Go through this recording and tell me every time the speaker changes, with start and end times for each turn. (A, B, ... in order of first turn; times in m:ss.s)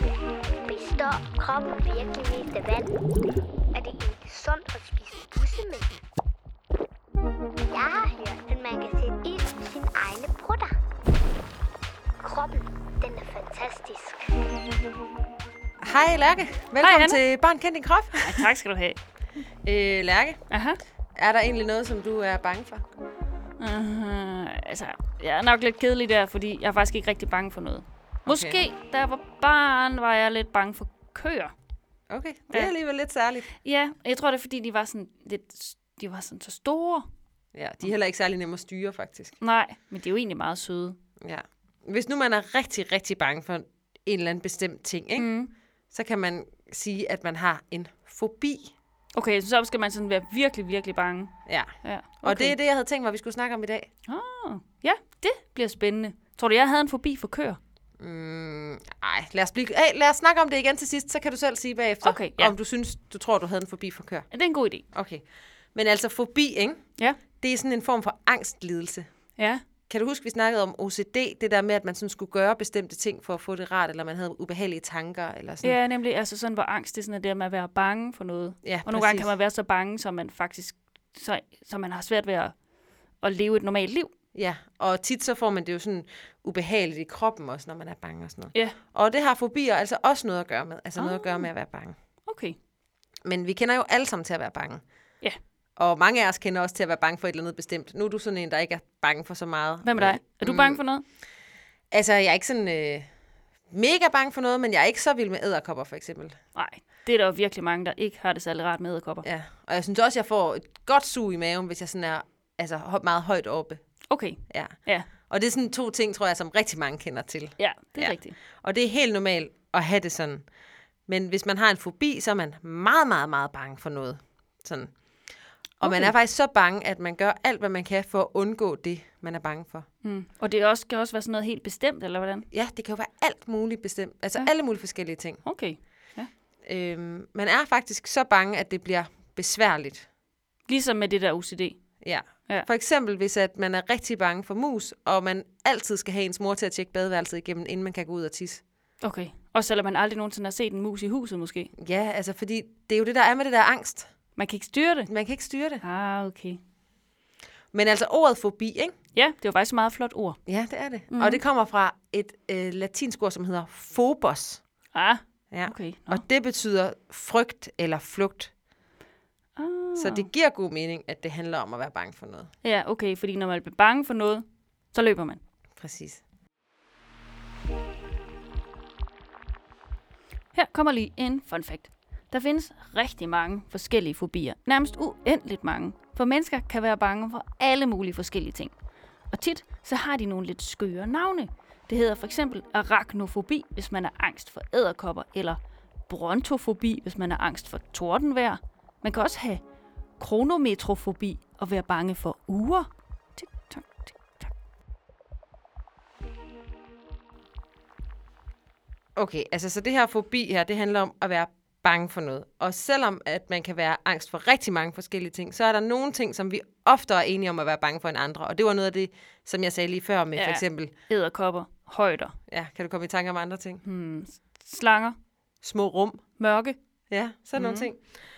0:00.6-0:03.0 A
0:03.7-0:06.0 A
0:07.7-0:10.8 A
0:12.2-0:14.3 A
0:15.8-0:18.5 B
0:16.8-0:17.2 C
0:18.2-0:19.0 C
0:19.6-0:20.4 B
0:20.5-0:20.8 C
0:21.2-0:22.9 B
0:23.6-0:31.5 C
0:28.3-0:28.6 B
0:32.1-0:33.5 B
0:32.5-0:32.8 C
0:33.6-0:37.1 C
0:37.6-0:39.4 B
0:39.4-0:41.0 C
0:41.2-0:45.3 B
0:45.2-0:45.5 C
0:45.9-0:48.7 B
0:49.1-0:52.6 C
0:51.5-0:51.7 B
0:52.2-0:53.9 B
0:54.1-0:57.6 C
0:58.0-1:04.3 B
1:02.0-1:02.6 C
1:04.3-1:04.8 C
1:04.9-1:06.8 B
1:07.3-1:09.1 B
1:09.9-1:15.8 B
1:15.6-1:22.6 C
1:18.6-1:19.3 B
1:23.2-1:24.1 C
1:24.3-1:32.0 B
1:31.0-1:31.5 C
1:32.3-1:32.6 C
1:33.2-1:34.8 B
1:35.8-1:40.8 B
1:39.8-1:41.0 C
1:41.9-1:43.1 B
1:43.7-1:46.4 B
1:46.6-1:49.3 C
1:49.2-1:53.8 B
1:54.1-1:55.1 C
1:54.5-1:54.8 B
1:55.3-2:00.5 B
1:57.6-1:58.4 C
2:01.1-2:04.9 B
2:05.8-2:06.1 C
2:05.8-2:09.9 B
2:10.0-2:12.5 C
2:12.5-2:15.4 B
2:15.4-2:16.3 C
2:16.6-2:20.0 B
2:20.7-2:21.8 C
2:22.0-2:28.6 B
2:29.0-2:31.7 C
2:31.8-2:34.1 B
2:34.4-2:35.1 C
2:35.1-2:35.8 B
2:35.8-2:36.6 C
2:37.7-2:38.9 B
2:39.1-2:40.4 C
2:40.5-2:44.6 B
2:41.1-2:41.4 C
2:44.9-2:46.2 C
2:45.5-2:48.5 B
2:49.6-2:50.3 C
2:50.0-2:52.5 B
2:52.6-2:55.4 C
2:55.8-2:56.2 B
3:00.5-3:08.8 C
3:09.3-3:19.6 C
3:20.2-3:24.5 C
3:29.2-3:40.9 B
3:40.4-3:42.4 C
3:42.5-3:43.8 B
3:43.8-3:45.2 C
3:45.6-3:46.2 B
3:46.4-3:46.8 C
3:47.1-3:48.1 B
3:47.6-3:47.9 C